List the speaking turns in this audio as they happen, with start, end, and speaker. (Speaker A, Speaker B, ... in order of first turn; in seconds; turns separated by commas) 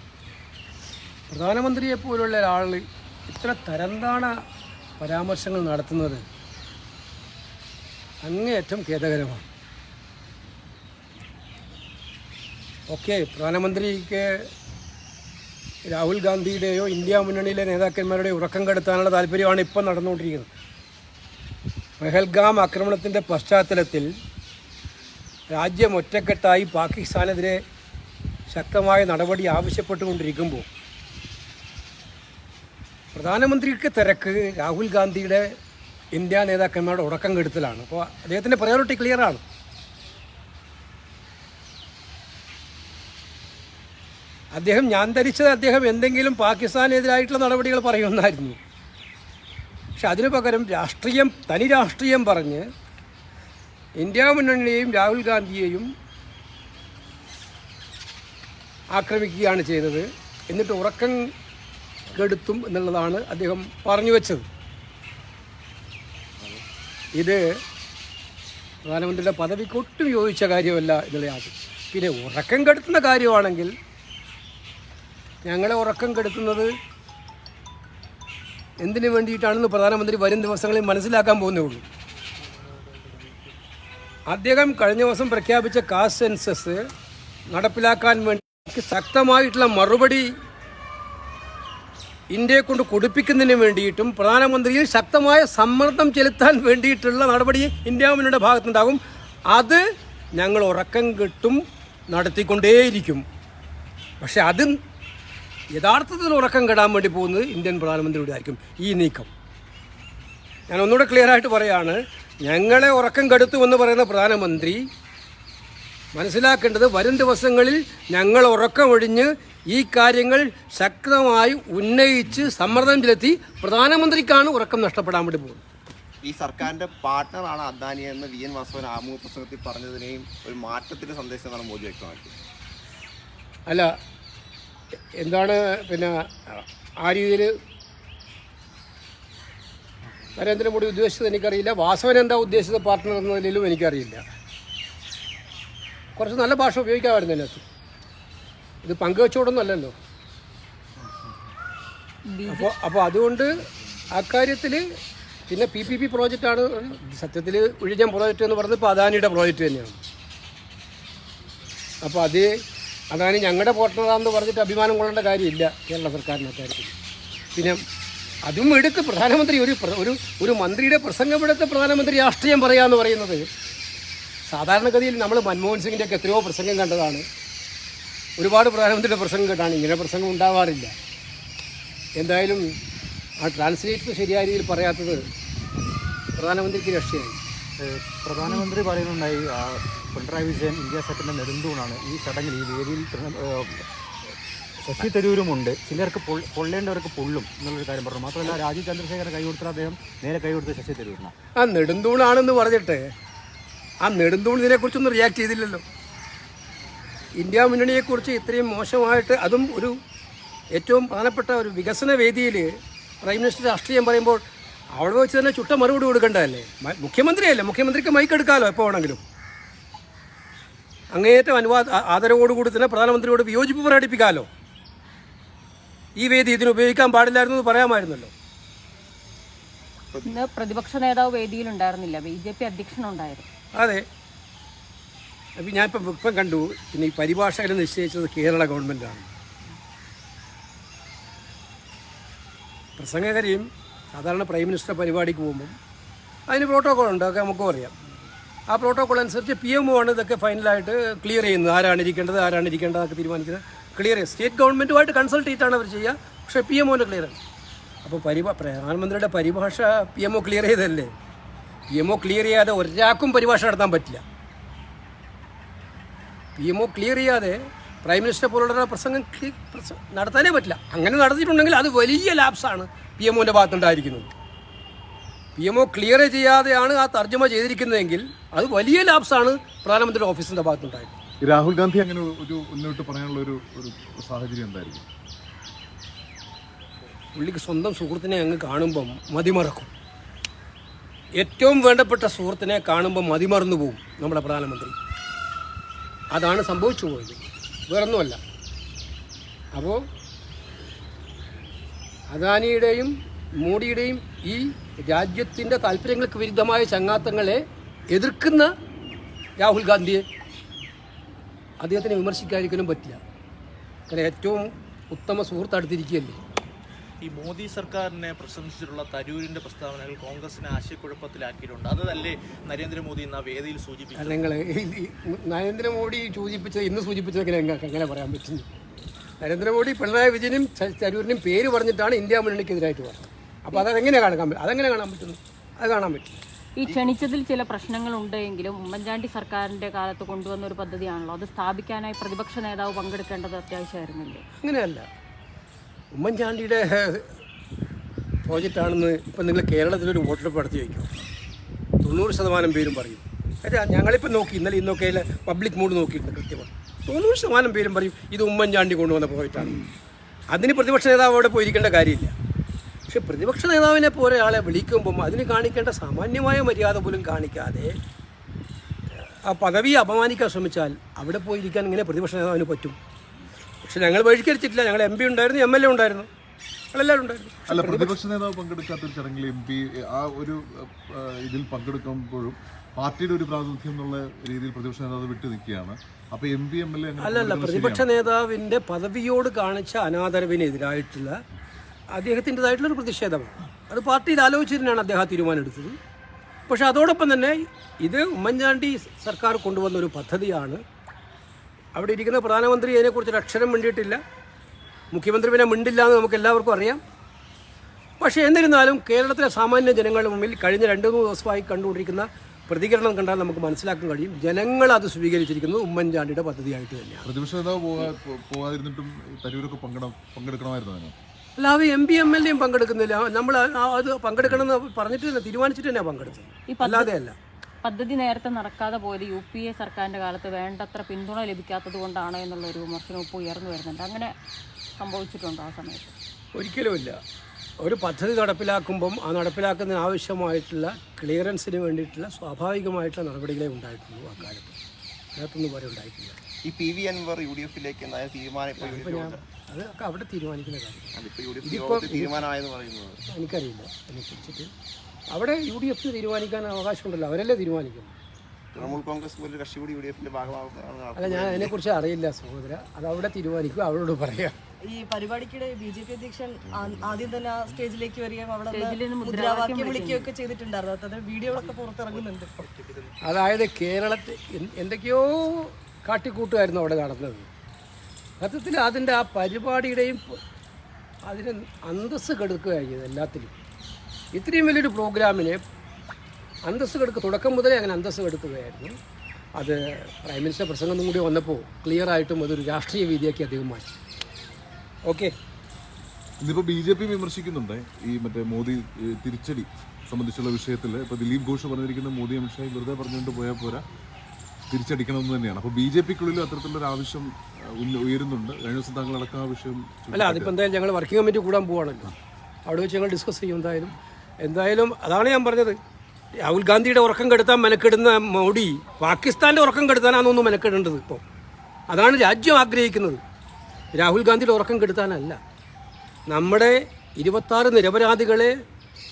Speaker A: 1.3-4.4, Speaker A: 5.0-6.2, Speaker A: 8.2-9.4, Speaker A: 12.9-14.5, Speaker A: 15.9-20.5, Speaker A: 22.0-24.1, Speaker A: 25.5-27.6, Speaker A: 28.5-30.7, Speaker A: 33.1-35.5, Speaker A: 36.1-39.4, Speaker A: 44.5-48.6, Speaker A: 50.0-52.7, Speaker A: 54.0-55.9, Speaker A: 58.9-61.3, Speaker A: 62.1-64.4, Speaker A: 67.2-67.4, Speaker A: 68.8-73.7, Speaker A: 75.4-76.7, Speaker A: 78.8-81.8, Speaker A: 84.3-86.8, Speaker A: 87.5-90.3, Speaker A: 92.3-99.0, Speaker A: 99.5-99.8, Speaker A: 100.3-103.2, Speaker A: 104.2-104.8, Speaker A: 105.7-109.3, Speaker A: 110.7-114.8, Speaker A: 116.2-125.6, Speaker B: 126.2-132.4, Speaker A: 133.7-133.9, Speaker A: 135.2-137.6, Speaker A: 140.3-144.2, Speaker A: 146.2-147.6, Speaker A: 148.8-149.9, Speaker C: 152.3-152.7, Speaker A: 152.5-154.8, Speaker A: 155.5-160.0, Speaker A: 162.0-162.5, Speaker A: 163.1-166.9, Speaker A: 167.6-167.8, Speaker A: 168.4-173.4, Speaker A: 174.5-177.2, Speaker A: 178.4-180.9, Speaker A: 182.2-182.7, Speaker A: 183.4-185.3, Speaker A: 186.4-187.4, Speaker D: 187.8-193.9, Speaker D: 194.8-201.3, Speaker A: 201.6-203.1, Speaker A: 204.0-205.8, Speaker A: 207.4-210.0, Speaker A: 210.8-214.4, Speaker A: 214.9-219.2, Speaker A: 221.1-224.5, Speaker A: 226.2-228.3, Speaker C: 230.2-233.5, Speaker A: 233.8-234.1, Speaker A: 235.6-239.3, Speaker A: 243.0-245.7, Speaker A: 246.5-247.9, Speaker A: 248.7-257.4, Speaker A: 258.0-261.1, Speaker A: 261.9-264.2, Speaker A: 266.6-274.3, Speaker A: 275.6-281.1, Speaker E: 281.4-285.1, Speaker A: 287.4-289.9, Speaker A: 291.4-294.9, Speaker A: 296.3-298.4, Speaker A: 299.8-300.1, Speaker A: 302.3-308.7, Speaker A: 309.6-310.2, Speaker A: 311.8-313.2, Speaker A: 314.1-316.4, Speaker F: 317.2-324.4, Speaker A: 324.2-328.7, Speaker A: 329.4-336.4, Speaker C: 336.8-344.4, Speaker A: 344.6-345.1, Speaker A: 346.1-347.3, Speaker A: 348.4-351.1, Speaker A: 352.0-359.8, Speaker A: 360.5-362.4, Speaker A: 363.1-368.0, Speaker A: 369.1-373.0, Speaker A: 373.8-376.3, Speaker A: 376.9-378.1, Speaker E: 377.7-388.1, Speaker A: 387.2-391.4, Speaker A: 392.1-396.0, Speaker A: 396.7-400.8, Speaker A: 401.9-404.2, Speaker A: 405.1-407.0, Speaker A: 408.2-417.3, Speaker E: 417.2-421.1, Speaker A: 421.6-427.4, Speaker C: 426.7-427.1, Speaker C: 427.8-434.3, Speaker C: 435.0-436.1, Speaker A: 436.6-437.2, Speaker A: 437.8-444.8, Speaker A: 445.4-446.4, Speaker B: 446.6-449.4, Speaker A: 448.8-452.4, Speaker B: 451.1-453.2, Speaker A: 453.3-454.7, Speaker A: 455.3-458.1, Speaker B: 458.7-461.7, Speaker A: 461.2-464.6, Speaker G: 464.8-472.6, Speaker C: 468.7-470.3, Speaker F: 471.6-473.1, Speaker A: 473.2-477.5, Speaker A: 478.4-480.4, Speaker A: 481.2-483.5, Speaker A: 484.3-485.6, Speaker A: 486.7-489.0, Speaker A: 489.6-493.9, Speaker A: 495.1-495.3, Speaker E: 496.4-503.9, Speaker E: 504.7-510.5, Speaker A: 510.1-512.1, Speaker A: 512.7-515.8, Speaker A: 516.4-521.2, Speaker A: 521.9-523.2, Speaker A: 524.0-525.4, Speaker A: 526.3-528.6